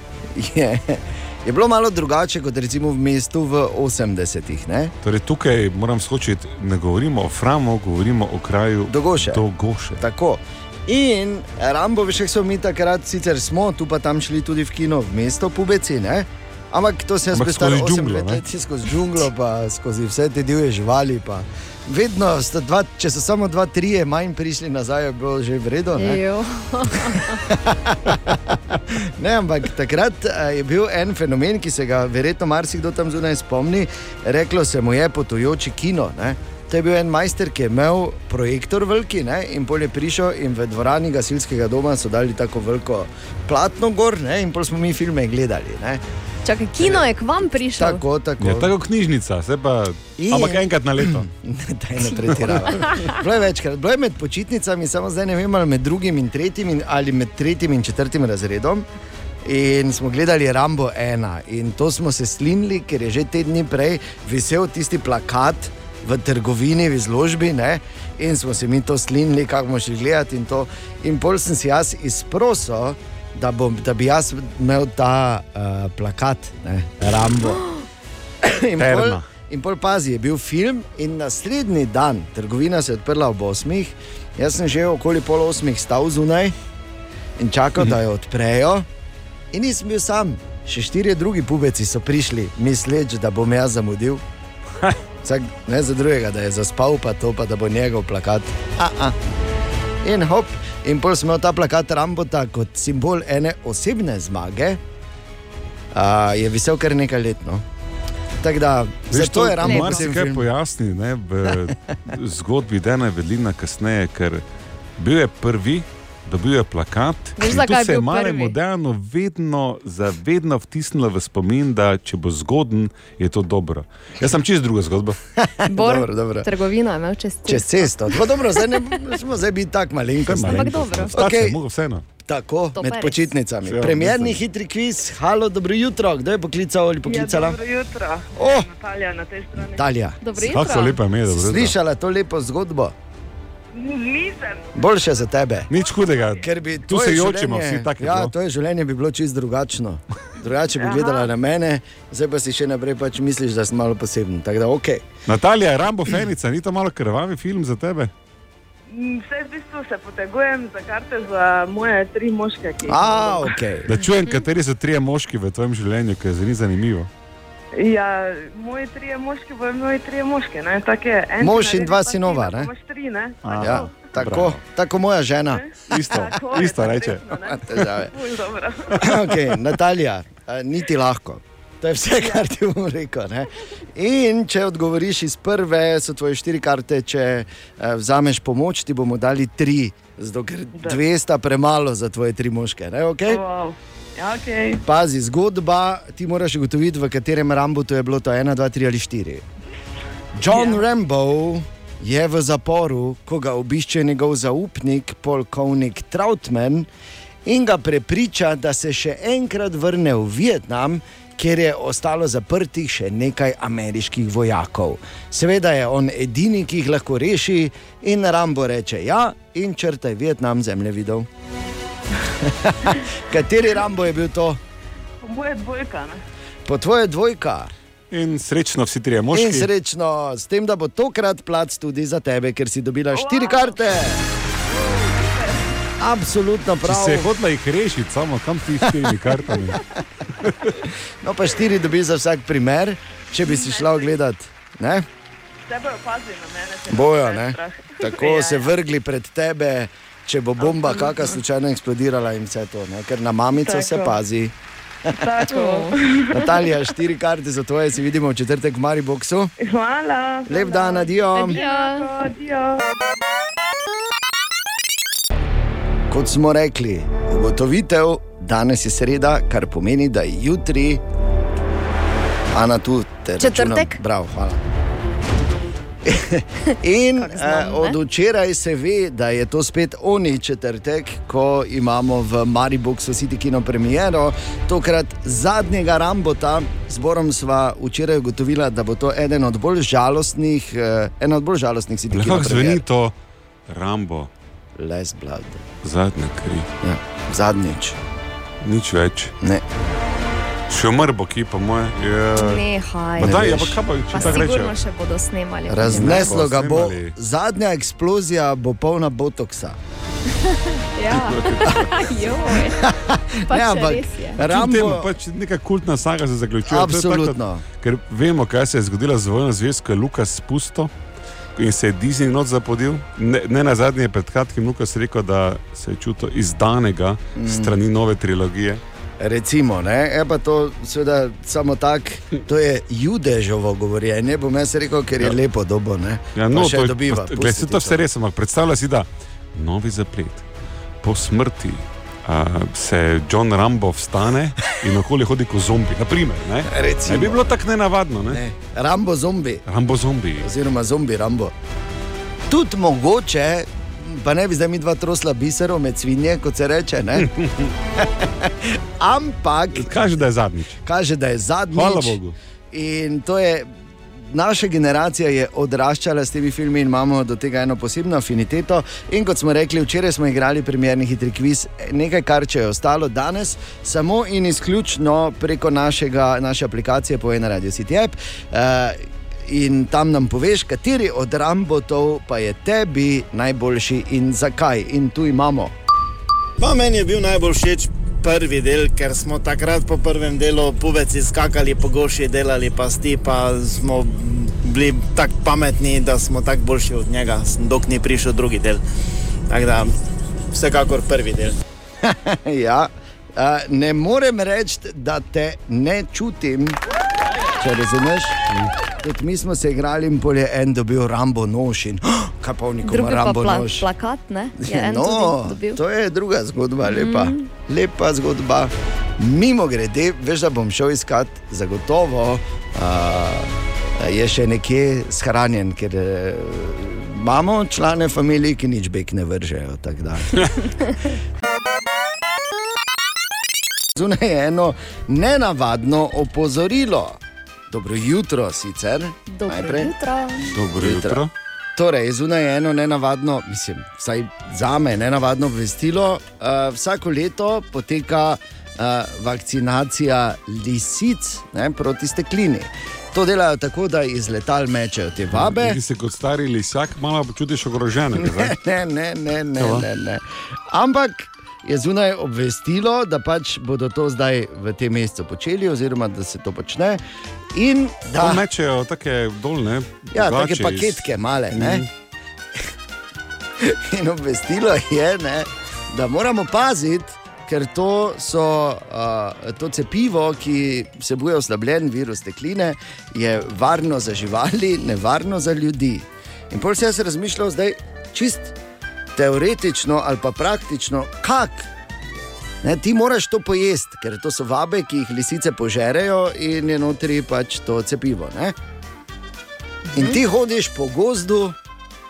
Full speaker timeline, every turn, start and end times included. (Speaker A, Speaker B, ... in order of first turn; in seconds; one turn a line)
Speaker A: 0.3-4.9
Speaker B: 5.0-10.0
Speaker A: 8.9-9.4
Speaker A: 10.0-26.2
Speaker B: 17.3-18.4
Speaker C: 25.9-27.4
Speaker A: 27.4-46.0
Speaker C: 46.4-48.0
Speaker A: 46.8-47.1
Speaker A: 47.7-48.7
Speaker B: 48.4-51.3
Speaker A: 50.2-58.9
Speaker C: 52.4-53.1
Speaker A: 59.4-77.7
Speaker A: 78.4-86.5
Speaker B: 78.8-79.2
Speaker A: 87.4-88.8
Speaker A: 89.5-94.2
Speaker A: 95.2-99.2
Speaker A: 100.0-104.8
Speaker A: 105.9-107.6
Speaker A: 108.4-110.5
Speaker B: 109.1-114.4
Speaker C: 109.6-110.1
Speaker B: 115.0-125.2
Speaker C: 117.4-118.6
Speaker A: 125.4-126.5
Speaker C: 125.7-129.0
Speaker A: 127.5-131.6
Speaker B: 130.2-132.1
Speaker C: 130.4-131.2
Speaker A: 132.2-137.6
Speaker C: 132.8-133.3
Speaker B: 133.6-134.4
Speaker D: 137.0-139.8
Speaker A: 138.3-138.7
Speaker A: 139.6-140.2
Speaker C: 140.2-141.0
Speaker B: 140.4-141.7
Speaker A: 141.3-142.9
Speaker D: 143.7-144.7
Speaker A: 144.7-145.7
Speaker B: 145.7-148.3
Speaker D: 145.7-146.4
Speaker A: 146.4-155.1
Speaker D: 150.8-151.3
Speaker B: 155.3-158.1
Speaker D: 158.9-163.6
Speaker A: 162.8-163.9
Speaker B: 163.8-167.1
Speaker D: 167.8-174.1
Speaker A: 171.4-172.7
Speaker B: 173.4-174.6
Speaker A: 173.6-175.7
Speaker D: 175.5-179.1
Speaker B: 175.9-177.3
Speaker A: 177.5-178.1
Speaker A: 179.0-193.4
Speaker D: 182.2-182.5
Speaker D: 193.3-194.8
Speaker A: 194.8-199.4
Speaker A: 200.3-206.9
Speaker D: 200.5-200.8
Speaker A: 207.4-221.3
Speaker A: 222.4-224.6
Speaker D: 225.2-226.2
Speaker A: 226.7-227.7
Speaker B: 228.1-229.7
Speaker A: 229.3-234.2
Speaker D: 233.1-233.8
Speaker D: 234.7-235.7
Speaker A: 236.0-237.3
Speaker B: 236.8-239.8
Speaker A: 238.8-239.8
Speaker B: 240.4-240.7
Speaker A: 241.2-245.1
Speaker D: 243.4-244.2
Speaker D: 245.7-248.7
Speaker A: 246.9-254.5
Speaker D: 250.6-251.3
Speaker D: 253.5-254.2
Speaker D: 255.1-256.8
Speaker C: 255.5-255.9
Speaker A: 256.3-259.5
Speaker D: 259.6-262.8
Speaker A: 260.5-261.6
Speaker C: 261.3-262.1
Speaker A: 266.1-271.0
Speaker A: 272.5-274.6
Speaker C: 273.4-274.0
Speaker A: 276.0-292.8
Speaker C: 277.2-278.0
Speaker B: 292.1-293.1
Speaker B: 293.7-294.3
Speaker A: 294.8-295.6
Speaker B: 295.8-296.7
Speaker A: 296.8-298.0
Speaker B: 298.6-299.3
Speaker B: 300.7-302.6
Speaker C: 302.3-306.4
Speaker B: 303.2-304.7
Speaker A: 303.2-303.8
Speaker A: 305.7-309.8
Speaker B: 305.8-307.1
Speaker C: 310.3-312.8
Speaker B: 311.1-311.9
Speaker A: 312.6-315.1
Speaker C: 313.5-314.4
Speaker B: 314.4-320.9
Speaker A: 316.6-317.6
Speaker B: 321.6-328.8
Speaker A: 327.4-327.7
Speaker A: 329.2-338.1
Speaker B: 336.3-340.4
Speaker B: 341.0-348.4
Speaker A: 346.6-347.4
Speaker A: 348.3-349.6
Speaker B: 349.7-350.5
Speaker A: 350.4-351.5
Speaker A: 352.5-357.3
Speaker A: 358.0-360.2
Speaker B: 359.7-360.8
Speaker A: 360.8-362.2
Speaker B: 361.7-362.3
Speaker A: 362.7-363.7
Speaker A: 364.2-385.7
Speaker E: 386.6-398.8
Speaker E: 399.5-399.9
Speaker E: 400.5-401.6
Speaker A: 402.0-406.8
Speaker A: 407.6-408.4
Speaker A: 409.0-413.9
Speaker C: 412.8-415.8
Speaker A: 414.6-430.5
Speaker C: 416.8-417.4
Speaker A: 433.9-437.2
Speaker A: 437.7-439.9
Speaker C: 439.3-440.5
Speaker B: 440.5-441.3
Speaker A: 440.8-441.2
Speaker A: 441.8-455.8
Speaker B: 455.4-458.5
Speaker A: 458.1-467.0
Speaker B: 459.6-459.9
Speaker A: 467.5-468.4
Speaker B: 468.2-471.9
Speaker A: 470.1-471.8
Speaker A: 473.6-488.6
Speaker A: 489.1-491.7
Speaker A: 492.6-498.6
Speaker A: 499.9-501.6